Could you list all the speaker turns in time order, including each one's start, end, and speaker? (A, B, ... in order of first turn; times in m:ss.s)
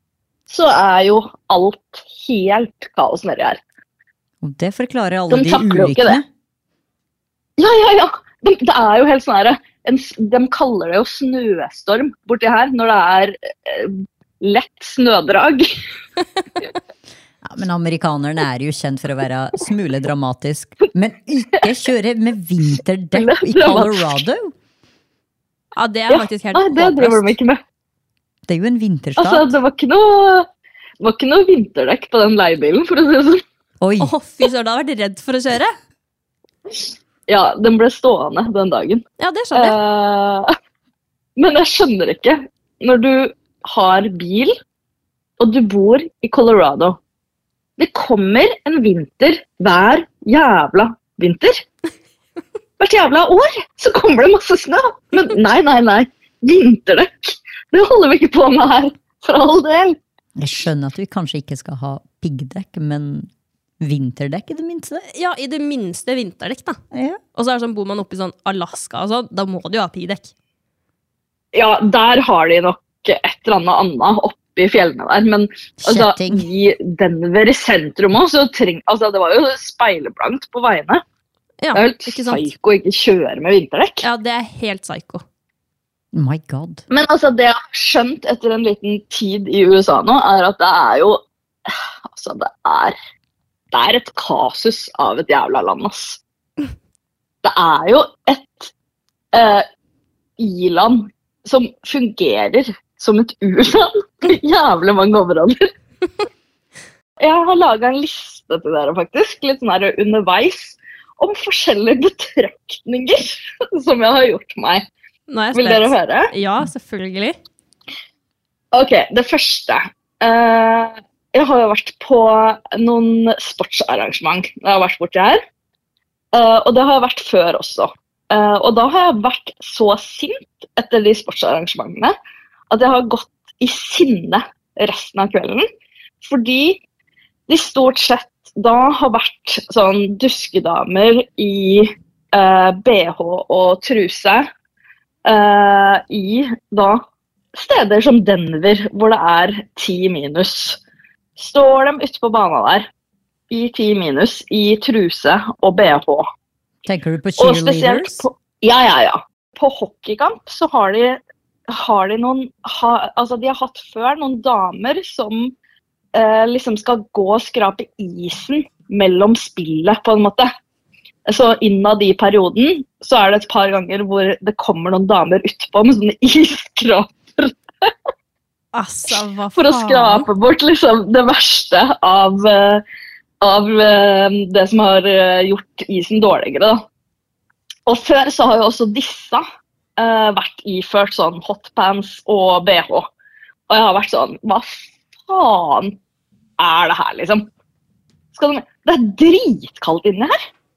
0:00.5-0:03.6 A
0:04.4-0:06.2 B
0:05.3-0:06.2 A
0:07.6-0:15.7 A
0:17.4-0:24.5 B
0:23.1-0:24.2 A
0:25.8-0:27.3 C
0:26.1-0:27.6 A
0:28.5-0:29.5 B
0:29.2-0:30.5 A
0:31.0-0:33.4 A
0:33.8-0:34.1 B
0:34.0-0:35.7 C
0:37.3-0:39.0 A
0:39.2-0:39.8 C
0:39.5-0:40.5 A
0:41.4-0:44.5 A
0:45.4-0:47.0 A
0:47.8-0:51.6 A
0:52.8-1:00.0 A
1:00.4-1:05.0 B
1:05.1-1:06.8 C
1:06.9-1:07.2 B
1:07.3-1:10.3 C
1:11.5-1:21.0 A
1:15.8-1:16.5 B
1:21.6-1:22.5 C
1:21.7-1:24.0 A
1:24.0-1:25.2 C
1:26.1-1:26.8 B
1:26.9-1:33.0 A
1:33.7-1:36.2 A
1:37.4-1:38.7 A
1:39.3-1:39.6 A
1:40.4-1:45.7 A
1:47.2-1:54.8 A
1:55.3-1:57.4 C
1:55.5-1:56.3 A
1:58.7-2:05.4 A
2:06.3-2:12.1 A
2:12.7-2:15.6 A
2:16.2-2:16.8 A
2:17.5-2:24.5 A
2:25.2-2:27.0 A
2:27.5-2:30.8 A
2:31.4-2:32.9 A
2:33.5-2:36.2 A
2:36.8-2:38.2 B
2:37.4-2:45.5 A
2:46.1-2:50.5 A
2:51.3-2:57.9 A
2:58.7-3:00.3 C
2:59.6-3:02.8 A
3:03.4-3:06.8 A
3:07.9-3:09.4 A
3:10.0-3:13.1 A
3:13.7-3:16.0 A
3:16.6-3:17.5 A
3:18.3-3:20.4 A